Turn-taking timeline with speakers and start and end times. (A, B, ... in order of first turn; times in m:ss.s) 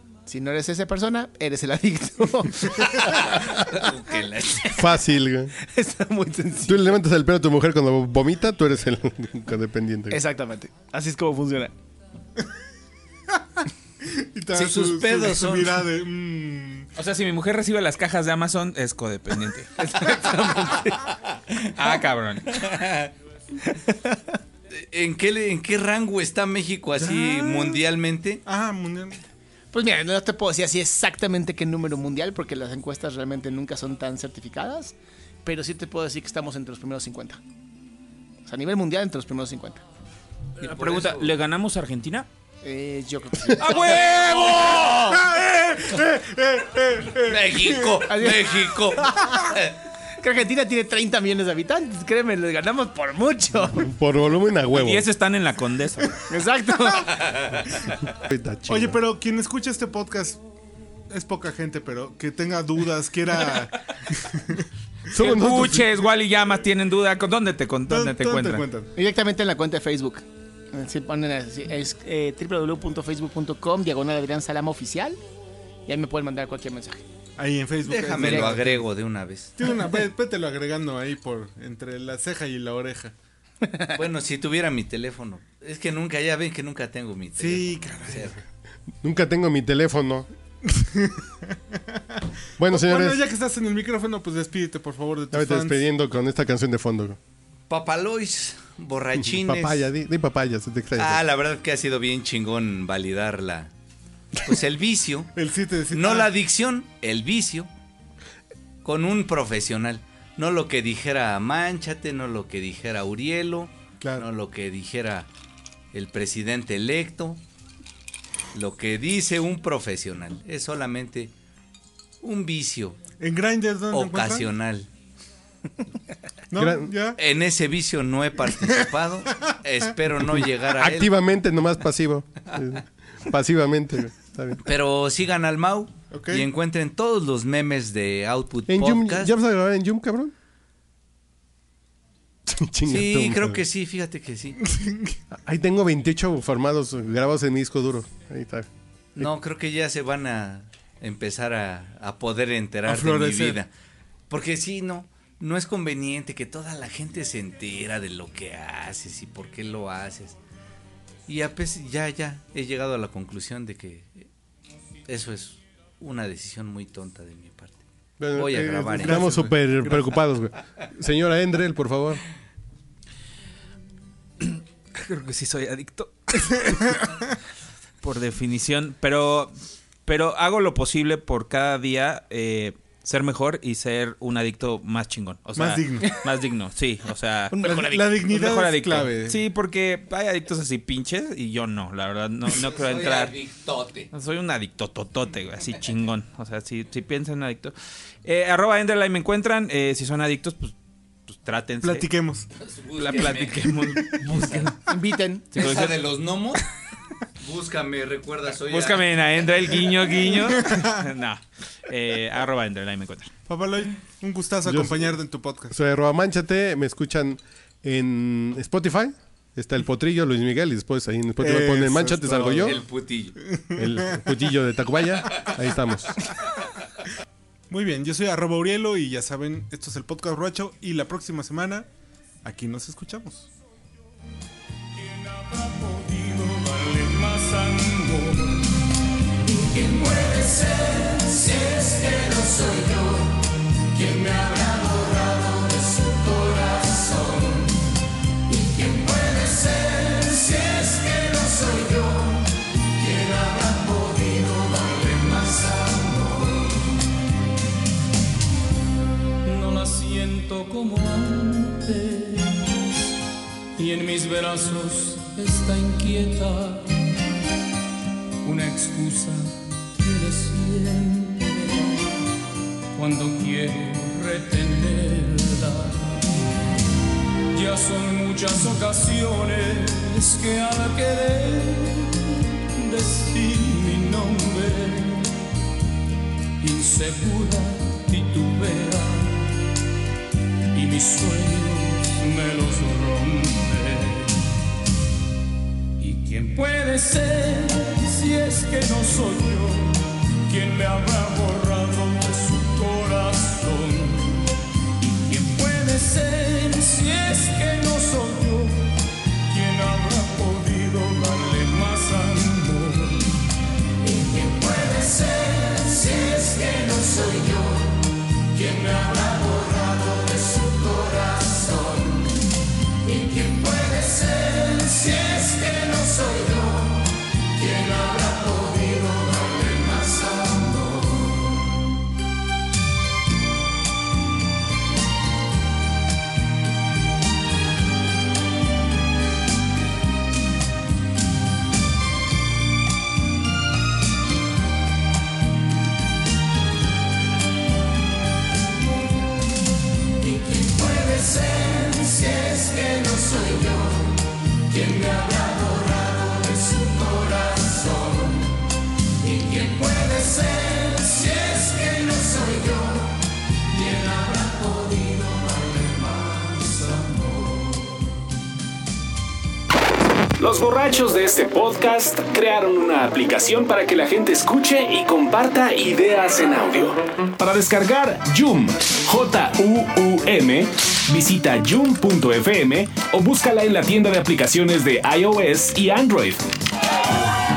0:00.3-0:03.4 A
0:03.1-0:04.8 B
0:04.7-0:05.5 C
0:05.6-0:07.0 A
0:06.6-0:10.2 C
0:10.1-0:11.7 A
0:14.0-0:16.9 D
0:14.5-0:15.8 B
0:17.0-0:19.7 E
0:19.8-0:21.1 A
0:21.8-0:22.7 E
0:22.5-0:23.1 B
0:23.7-0:24.4 A
0:24.7-0:28.4 B
0:27.0-0:27.8 D
0:28.5-0:29.2 D
0:29.7-0:37.4 A
0:38.4-0:39.8 A
0:40.6-0:41.3 B
0:40.6-0:42.3 E
0:42.6-0:44.2 A
0:43.5-0:45.2 E
0:44.5-0:48.0 D
0:47.3-0:49.8 B
0:48.1-0:48.4 A
0:50.2-0:53.8 A
0:53.7-0:55.1 C
0:54.7-0:56.2 E
0:56.3-0:57.3 A
0:58.1-0:59.0 C
0:58.7-1:00.4 D
1:01.1-1:05.3 D
1:05.1-1:06.0 C
1:05.2-1:08.7 E
1:07.9-1:08.9 D
1:09.0-1:15.2 A
1:15.9-1:17.0 A
1:17.4-1:18.9 D
1:17.8-1:19.6 B
1:19.6-1:23.1 D
1:23.9-1:28.4 B
1:27.4-1:28.4 D
1:29.0-1:30.3 C
1:30.6-1:35.8 D
1:32.6-1:33.2 C
1:35.3-1:37.2 C
1:37.7-1:39.9 B
1:39.2-1:41.2 C
1:41.0-1:43.7 B
1:44.4-1:45.3 B
1:45.4-1:46.3 D
1:45.9-1:47.7 B
1:48.8-1:55.3 B
1:54.0-1:54.3 D
1:55.9-1:57.4 B
1:58.5-2:01.3 B
2:02.2-2:03.0 B
2:03.2-2:04.5 D
2:03.9-2:04.9 B
2:06.5-2:07.2 D
2:06.6-2:06.9 C
2:07.2-2:11.1 B
2:10.7-2:14.6 C
2:14.6-2:19.3 B
2:16.1-2:16.5 D
2:18.7-2:20.3 C
2:22.5-2:23.6 C
2:22.9-2:24.6 B
2:24.7-2:25.2 D
2:25.3-2:29.3 C
2:29.2-2:33.7 B
2:32.9-2:33.6 D
2:34.3-2:40.4 B
2:41.3-2:44.3 B
2:45.1-2:47.8 B
2:48.2-2:52.2 C
2:48.3-2:49.4 B
2:49.0-2:50.2 D
2:54.4-2:56.8 E
2:58.0-2:59.5 E
3:00.1-3:07.6 E
3:05.6-3:06.2 D
3:07.5-3:08.2 A
3:07.6-3:09.4 D
3:08.3-3:13.3 E
3:12.6-3:14.1 B
3:14.1-3:20.8 E
3:21.3-3:22.1 E
3:21.8-3:22.5 D
3:22.6-3:24.7 B
3:22.9-3:25.0 E
3:24.9-3:25.5 A
3:25.5-3:26.0 E
3:25.6-3:26.6 B
3:27.4-3:29.3 B
3:28.6-3:33.3 E
3:30.4-3:31.1 D
3:33.5-3:35.8 D
3:34.6-3:35.2 C
3:35.7-3:42.8 C
3:41.4-3:42.8 D
3:42.6-3:43.4 B
3:43.4-3:44.4 D
3:43.8-3:46.2 C
3:47.7-3:51.9 D
3:52.4-3:53.5 D
3:54.9-3:58.7 F
3:59.4-4:07.9 F
4:08.5-4:16.9 F
4:19.4-4:23.0 F
4:23.8-4:27.1 F
4:28.4-4:32.1 F
4:32.9-4:36.5 F
4:37.5-4:45.4 F
4:46.6-4:49.6 F
4:50.7-4:54.5 F
4:56.0-5:13.4 F
5:14.0-5:22.5 F
5:23.0-5:31.4 F
5:50.2-5:58.6 F
5:59.2-6:08.0 F
6:10.4-6:26.4 G